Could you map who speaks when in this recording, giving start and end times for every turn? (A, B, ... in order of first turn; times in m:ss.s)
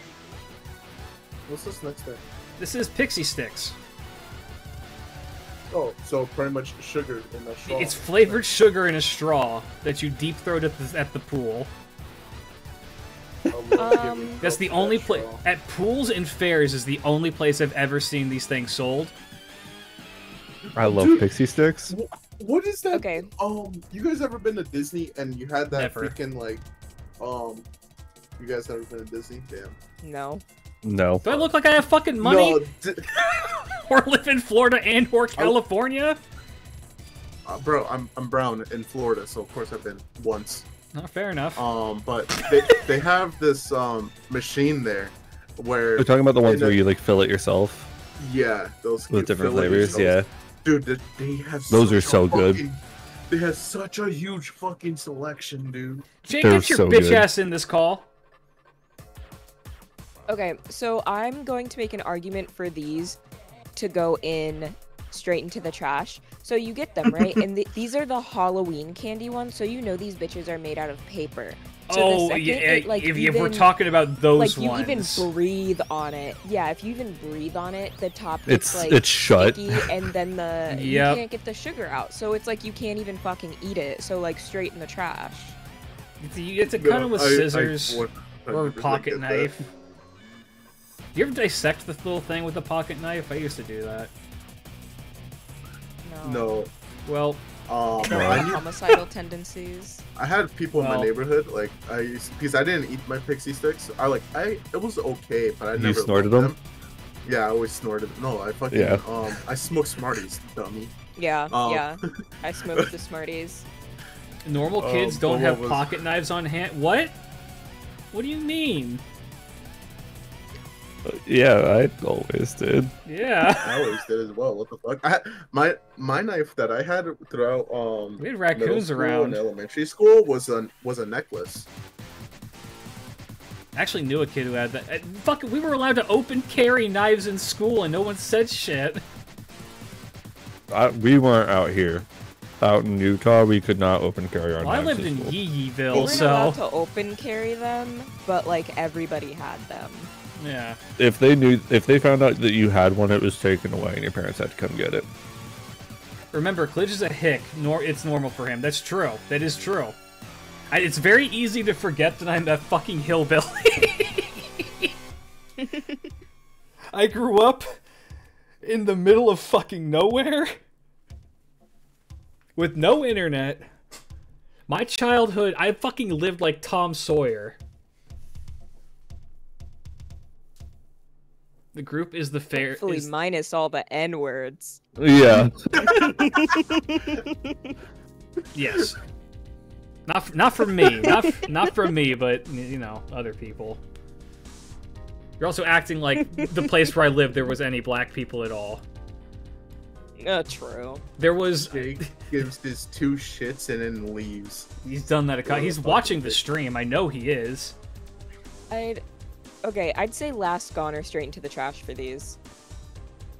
0:01.5-0:02.2 A
0:02.6-0:03.8 B
0:05.7-0:08.4 A
0:07.6-0:11.7 B
0:13.5-0:15.4 A
0:13.7-0:14.4 C
0:14.4-0:19.1 B
0:20.7-0:21.2 A
0:20.8-0:21.9 D
0:21.9-0:26.6 A
0:22.9-0:23.3 C
0:25.7-0:26.1 B
0:27.2-0:27.6 A
0:28.4-0:29.8 A
0:30.0-0:30.4 C
0:30.8-0:31.2 D
0:31.2-0:32.6 B
0:32.2-0:33.1 A
0:33.2-0:36.2 B
0:37.4-0:40.7 A
0:40.9-0:41.6 B
0:41.6-0:46.8 A
0:46.0-0:47.9 D
0:48.2-0:56.0 A
0:49.1-0:50.3 D
0:51.7-0:52.6 D
0:56.2-0:58.0 B
0:56.4-0:57.3 D
1:00.3-1:03.2 C
1:03.8-1:13.7 C
1:11.9-1:15.3 B
1:14.4-1:25.6 C
1:18.5-1:20.1 D
1:20.7-1:21.2 B
1:26.2-1:29.7 B
1:26.8-1:29.5 A
1:31.1-1:34.1 B
1:36.0-1:36.5 C
1:36.2-1:36.7 A
1:37.0-1:37.4 B
1:37.7-1:38.6 A
1:38.0-1:40.0 C
1:38.1-1:38.4 D
1:40.2-1:46.6 A
1:40.8-1:41.1 B
1:45.8-1:46.5 D
1:47.2-1:50.9 A
1:48.7-1:49.0 D
1:51.2-1:53.6 C
1:51.5-1:51.9 A
1:54.4-1:57.1 B
1:54.8-1:55.9 A
1:58.1-1:59.0 B
2:01.0-2:02.9 D
2:03.0-2:04.0 B
2:03.6-2:11.7 A
2:08.2-2:09.4 B
2:13.7-2:19.0 B
2:20.7-2:22.0 D
2:22.6-2:25.3 D
2:24.6-2:26.6 B
2:25.9-2:26.2 A
2:25.9-2:30.1 C
2:30.4-2:30.8 B
2:31.0-2:35.1 D
2:36.3-2:40.0 B
2:40.7-2:44.9 B
2:45.6-2:46.0 C
2:46.9-2:47.8 B
2:48.6-2:50.6 B
2:52.6-2:53.6 B
2:54.7-2:57.6 B
3:01.7-3:03.1 B
3:02.5-3:04.8 C
3:05.0-3:06.0 D
3:05.7-3:06.6 A
3:05.8-3:07.7 C
3:08.5-3:09.0 B
3:10.1-3:13.8 B
3:11.0-3:11.5 C
3:15.4-3:18.8 B
3:16.3-3:16.7 C
3:20.2-3:21.0 C
3:21.2-3:22.1 B
3:21.7-3:24.7 A
3:24.8-3:27.7 B
3:25.4-3:26.4 A
3:28.7-3:29.0 C
3:29.6-3:32.4 C